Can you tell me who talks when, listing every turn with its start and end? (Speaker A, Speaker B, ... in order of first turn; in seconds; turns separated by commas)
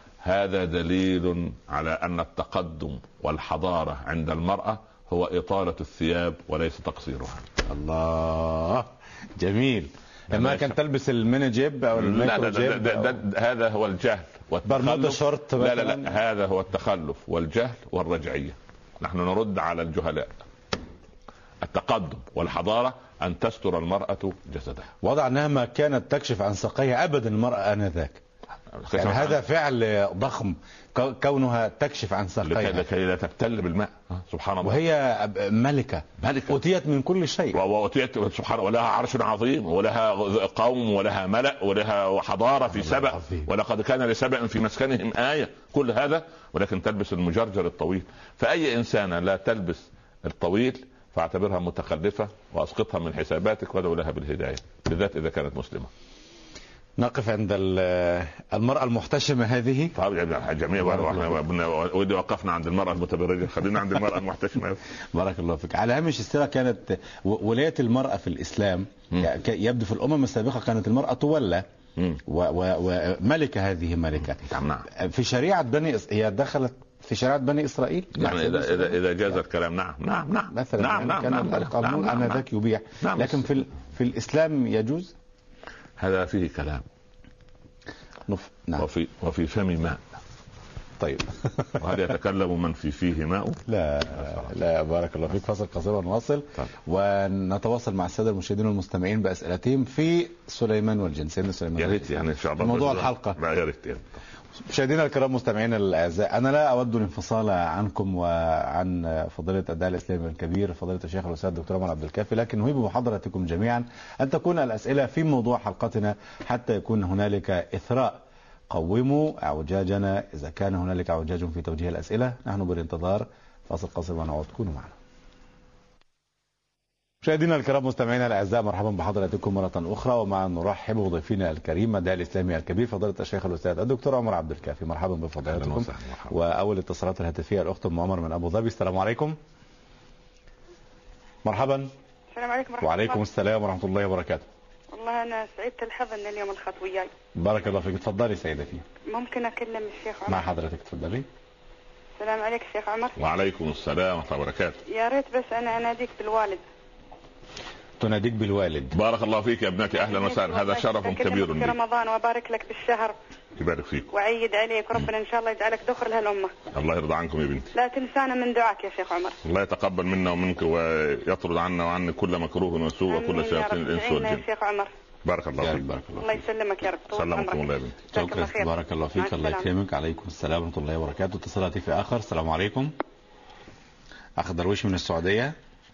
Speaker A: 0.2-7.5, Speaker B: 7.7-13.2, Speaker A: 10.3-10.8, Speaker A: 11.9-20.4, Speaker B: 14.7-16.1, Speaker A: 21.6-24.9, Speaker B: 25.0-28.2, Speaker A: 28.7-29.4, Speaker B: 28.9-32.9, Speaker A: 32.4-34.8, Speaker B: 34.6-37.6, Speaker A: 36.2-36.6, Speaker A: 37.5-55.9, Speaker B: 42.8-43.5, Speaker B: 57.0-60.0, Speaker A: 60.0-64.8, Speaker B: 60.8-61.4, Speaker B: 65.1-71.7, Speaker B: 72.3-79.4, Speaker A: 74.4-74.9, Speaker A: 78.2-82.4, Speaker B: 80.5-85.1, Speaker A: 83.0-83.5, Speaker A: 86.0-86.9, Speaker B: 88.3-88.9, Speaker A: 88.8-90.1, Speaker B: 91.0-91.7, Speaker A: 91.8-93.6, Speaker B: 93.7-103.4, Speaker A: 94.2-94.5, Speaker A: 101.8-104.2, Speaker B: 104.7-125.0, Speaker B: 127.2-139.4, Speaker A: 135.5-136.3, Speaker B: 141.4-141.9, Speaker C: 142.3-143.2, Speaker B: 142.8-144.5, Speaker C: 144.9-147.1, Speaker B: 147.4-148.8, Speaker C: 149.1-150.5, Speaker B: 150.3-151.3, Speaker C: 152.2-153.2, Speaker A: 153.2-154.8, Speaker C: 154.9-156.6, Speaker B: 158.0-158.9, Speaker A: 158.9-161.8, Speaker C: 159.9-163.2, Speaker A: 163.6-164.1, Speaker C: 164.1-166.5, Speaker A: 166.7-167.7, Speaker C: 167.7-169.4, Speaker A: 169.4-174.4, Speaker C: 173.1-174.9, Speaker A: 175.2-175.8, Speaker B: 175.6-176.4, Speaker C: 176.2-179.7, Speaker A: 177.1-178.0, Speaker B: 178.1-182.9, Speaker B: 184.4-185.6